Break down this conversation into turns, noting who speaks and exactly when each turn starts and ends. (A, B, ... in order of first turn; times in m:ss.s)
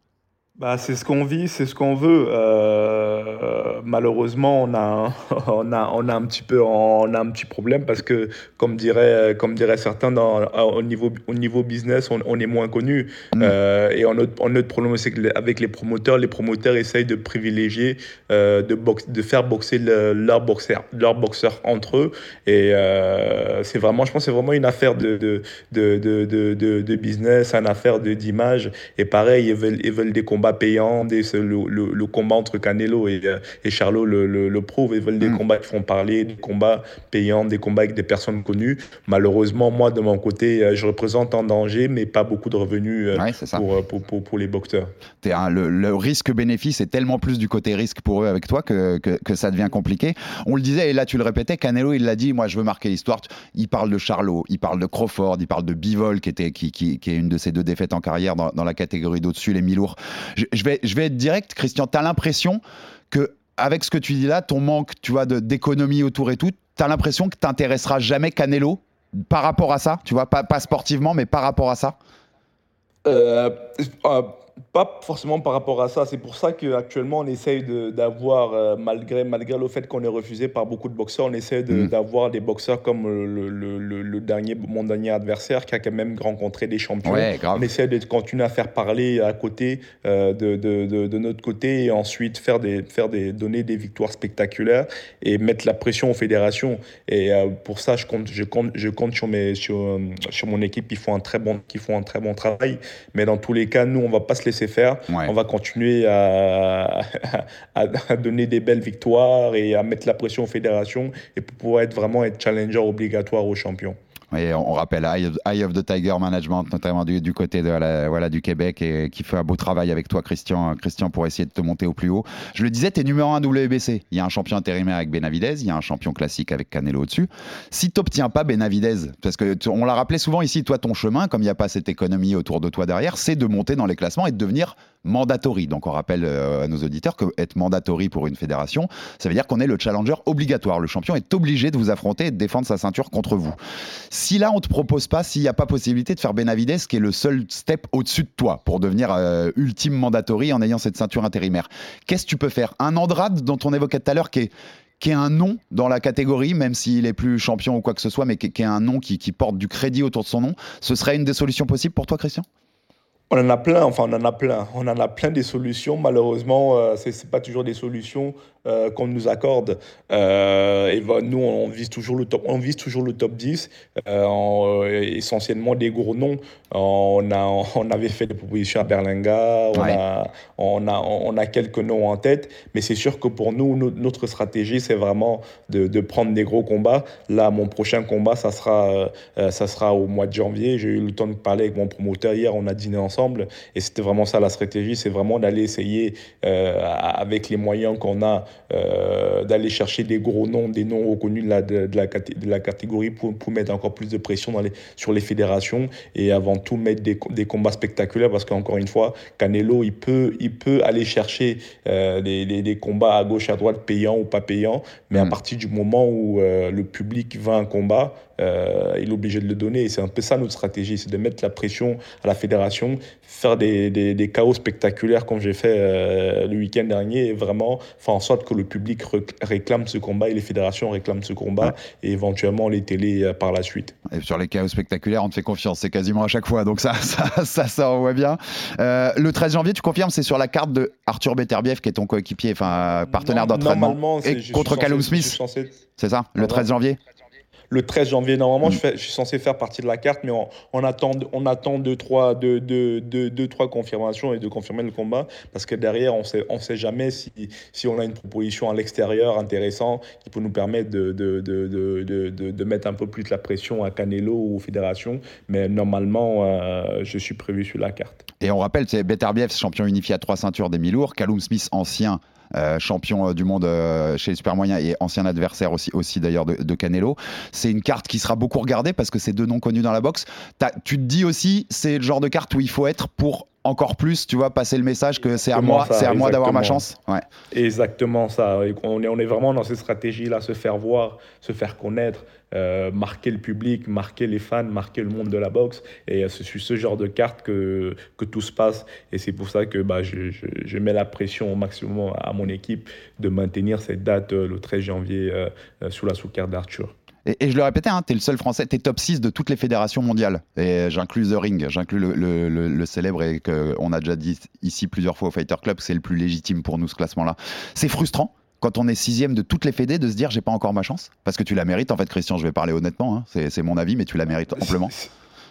0:00.6-0:44.9 A
0:43.1-0:43.6 B
0:45.2-1:12.0 B
1:13.0-1:54.0 A
1:27.0-1:27.7 B
1:54.3-2:23.6 B
2:24.1-2:42.4 B
2:43.3-3:53.9 A
2:59.7-3:00.0 B
3:54.1-4:05.4 B
4:03.1-4:05.8 A
4:06.0-4:07.0 B
4:06.4-4:06.6 A
4:07.7-4:28.2 A
4:28.4-4:47.2 B
4:45.5-4:46.8 A
4:47.5-5:06.9 A
5:07.2-5:24.9 B
5:24.6-5:25.1 A